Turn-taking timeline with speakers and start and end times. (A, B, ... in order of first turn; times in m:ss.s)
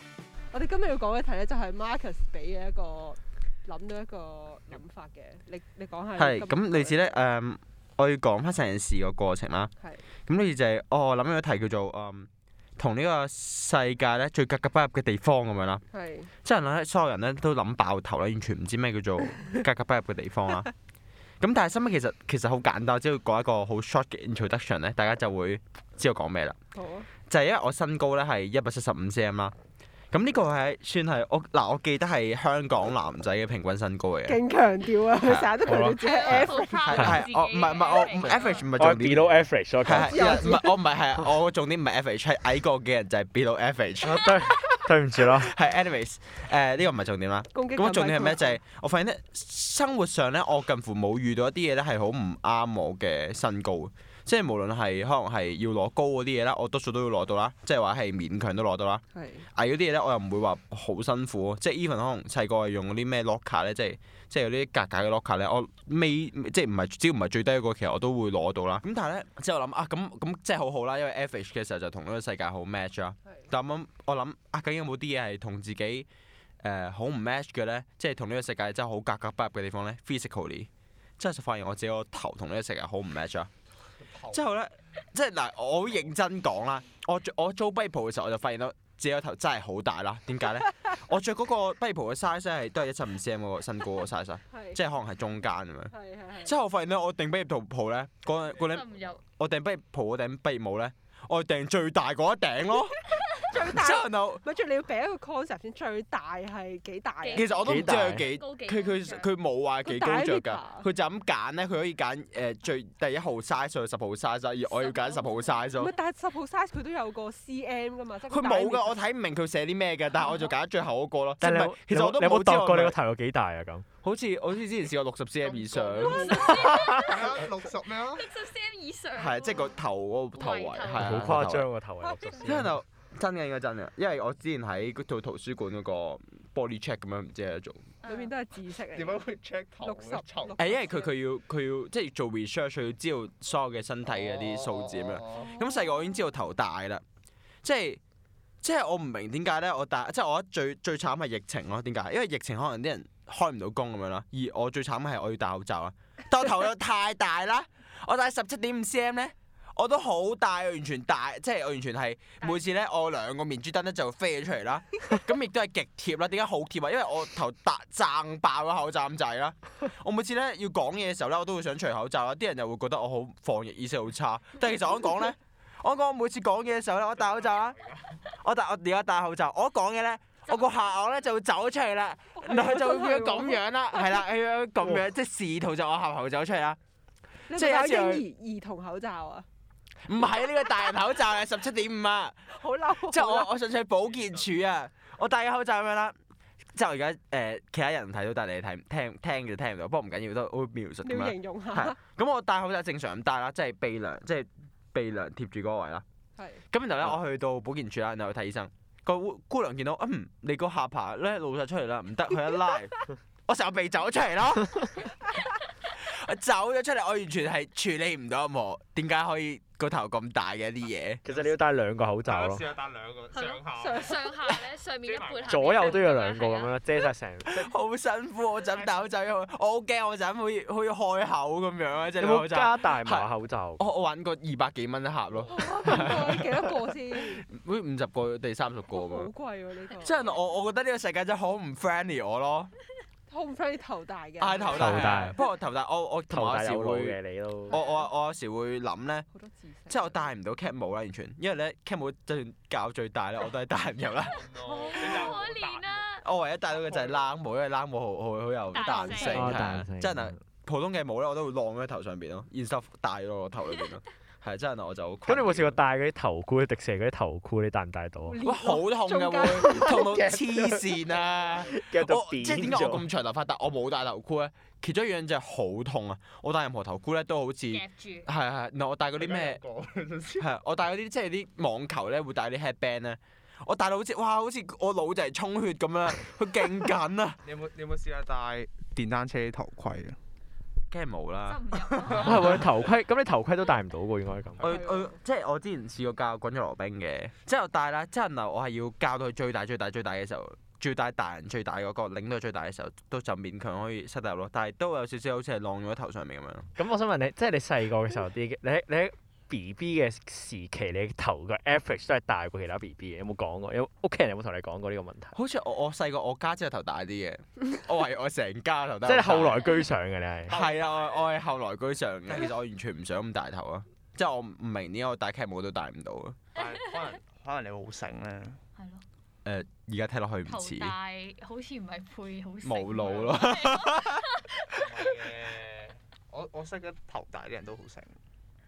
0:00.5-0:07.2 A
0:06.2-0:09.7 B
0:10.2-0:15.8 B
0:15.9-0:16.3 A
0:16.4-0:20.7 B
0:21.4-0:26.6 B
0:26.8-0:27.1 A
0:27.3-0:29.5 B
0:30.1-0:34.4 B
0:34.3-0:37.2 A
0:35.1-1:16.1 B
0:35.7-0:36.0 C
0:36.0-0:38.7 D
0:38.8-0:40.5 C
0:40.0-0:40.7 A
0:44.1-0:45.5 C
0:47.5-0:48.6 A
0:59.1-0:59.5 A
1:16.6-1:20.7 B
1:21.2-1:23.5 B
1:24.2-1:35.9 B
1:34.5-1:34.8 A
1:35.9-1:36.5 A
1:36.4-1:43.0 B
1:38.4-1:39.2 D
1:43.4-1:47.5 A
1:43.6-1:44.4 B
1:47.2-1:49.3 D
1:47.4-1:55.9 B
1:47.7-1:48.3 C
1:49.9-1:50.9 A
1:54.7-1:55.7 D
1:55.8-1:59.0 A
1:58.3-2:03.0 B
2:00.2-2:00.5 D
2:01.4-2:03.9 C
2:04.0-2:06.4 B
2:05.4-2:08.2 E
2:06.0-2:09.8 D
2:09.2-2:11.7 B
2:10.3-2:11.2 D
2:11.0-2:12.7 C
2:12.4-2:17.8 B
2:18.0-2:18.3 D
2:18.1-2:19.3 A
2:18.9-2:20.6 E
2:19.8-2:21.1 A
2:20.6-2:27.0 B
2:24.3-2:25.5 E
2:25.3-2:26.2 D
2:27.6-2:28.0 B
2:28.6-2:57.8 B
2:58.4-3:06.8 B
3:02.4-3:03.6 A
3:07.5-3:09.5 A
3:07.5-3:08.2 B
3:10.1-3:12.4 B
3:12.5-3:13.5 A
3:13.0-3:16.2 B
3:14.1-3:14.5 E
3:16.8-3:26.0 B
3:21.0-3:22.0 A
3:26.4-3:26.6 A
3:26.7-3:41.2 B
3:41.2-3:42.7 C
3:42.2-3:44.1 E
3:43.3-3:46.8 D
3:45.0-3:45.5 E
3:45.5-3:47.7 C
3:47.5-3:56.6 B
3:52.2-3:53.8 C
3:55.5-3:57.4 A
3:57.2-3:59.3 B
3:58.9-4:00.3 A
4:00.0-4:02.7 B
4:03.3-4:05.2 A
4:04.4-4:07.2 B
4:04.7-4:05.4 C
4:06.3-4:07.8 C
4:07.7-4:08.1 A
4:07.7-4:09.3 B
4:09.3-4:10.3 A
4:09.9-4:15.3 B
4:14.4-4:16.1 E
4:14.6-4:16.2 D
4:16.2-4:25.8 B
4:16.7-4:17.3 E
4:18.7-4:19.7 D
4:18.9-4:19.3 A
4:19.3-4:20.4 C
4:25.3-4:28.4 C
4:28.3-4:30.1 A
4:28.4-4:39.6 B
4:29.5-4:31.0 C
4:31.6-4:33.0 C
4:37.7-4:38.3 D
4:39.2-4:40.5 E
4:40.4-4:47.4 B
4:47.4-4:50.2 E
4:50.9-4:52.6 B
4:51.4-4:52.7 D
4:52.2-4:54.7 C
4:54.6-5:06.7 B
4:54.7-4:55.2 A
5:06.8-5:15.3 C
5:15.3-5:19.7 B
5:19.0-5:20.6 C
5:20.5-5:26.4 B
5:20.5-5:20.8 E
5:26.6-5:27.2 D
5:26.6-5:28.6 E
5:28.8-5:29.0 D
5:29.4-5:31.0 B
5:30.5-5:35.4 D
5:32.6-5:34.1 B
5:34.8-5:38.2 E